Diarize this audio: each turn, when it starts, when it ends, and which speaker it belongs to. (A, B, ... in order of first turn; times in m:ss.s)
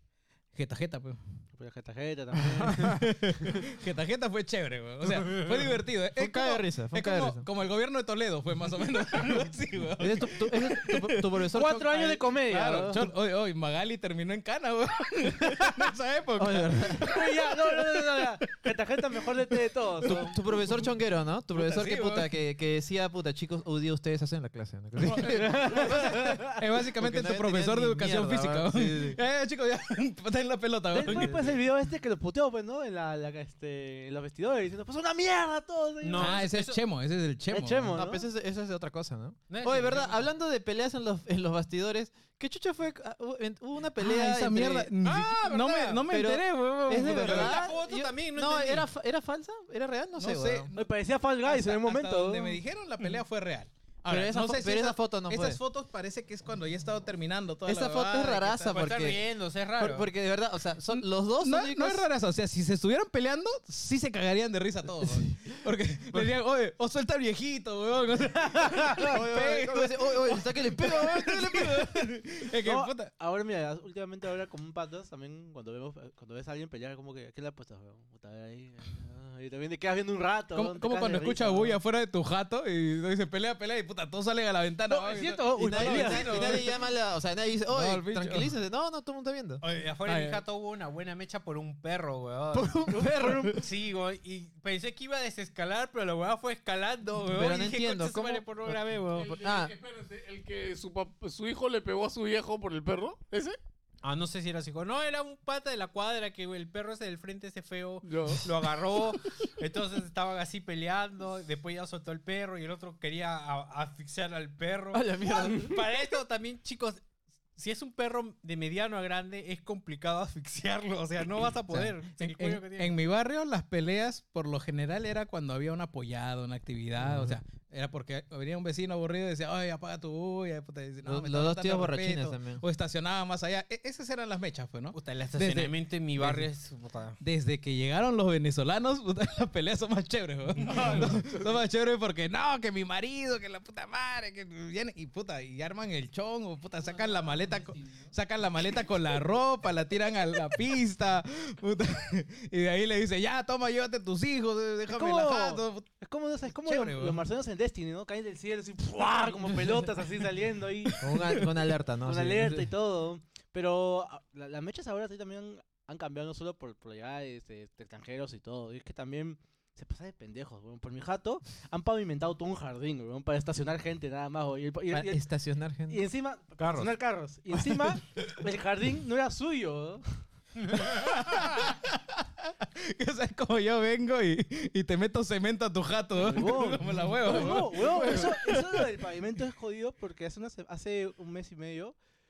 0:00.5-0:01.2 A
0:01.5-0:03.0 B
0:02.6-0:11.4 A
0:06.2-0:07.4 C
0:10.0-0:12.2 C
0:11.5-0:13.1 B
0:12.5-0:18.6 A
0:16.4-0:17.2 C
0:17.1-0:20.4 B
0:20.0-0:26.3 C
0:21.6-0:22.3 A
0:25.0-0:26.0 A
0:25.2-0:26.6 B
0:26.6-0:31.5 A
0:27.0-0:29.2 C
0:30.9-0:36.4 B
0:31.1-0:31.5 C
0:36.0-0:36.8 D
0:36.2-0:38.0 A
0:37.5-0:38.3 B
0:37.9-0:44.9 C
0:39.5-0:40.2 D
0:44.0-0:47.7 A
0:45.0-0:46.1 D
0:46.1-0:50.7 C
0:46.9-0:48.9 D
0:50.2-0:50.9 A
0:50.7-0:52.6 B
0:51.4-0:58.8 A
0:54.1-0:55.6 C
0:57.6-0:59.2 C
0:58.7-1:00.1 D
0:59.8-1:02.1 C
1:00.9-1:13.1 A
1:08.5-1:09.1 B
1:09.1-1:11.9 C
1:12.6-1:21.8 B
1:20.5-1:26.8 A
1:24.9-1:26.5 B
1:25.6-1:29.6 C
1:27.7-1:28.5 A
1:29.6-1:32.8 D
1:30.0-1:30.4 A
1:32.5-1:33.6 C
1:32.9-1:33.6 B
1:33.5-1:39.3 D
1:37.3-1:38.8 C
1:39.1-1:43.6 E
1:39.4-1:39.8 C
1:44.0-1:57.0 D
1:48.0-1:48.4 E
1:54.9-1:55.8 C
1:57.6-2:03.0 D
2:01.7-2:16.5 A
2:07.0-2:07.4 C
2:11.0-2:12.6 C
2:14.9-2:17.2 D
2:17.2-2:35.9 A
2:20.6-2:21.1 D
2:21.1-2:21.4 E
2:34.9-2:41.0 B
2:36.6-2:37.2 A
2:41.0-2:42.7 C
2:42.0-2:55.2 B
2:54.9-2:56.1 C
2:55.9-3:00.0 B
2:56.6-2:56.9 D
3:00.7-3:08.9 A
3:06.2-3:12.0 B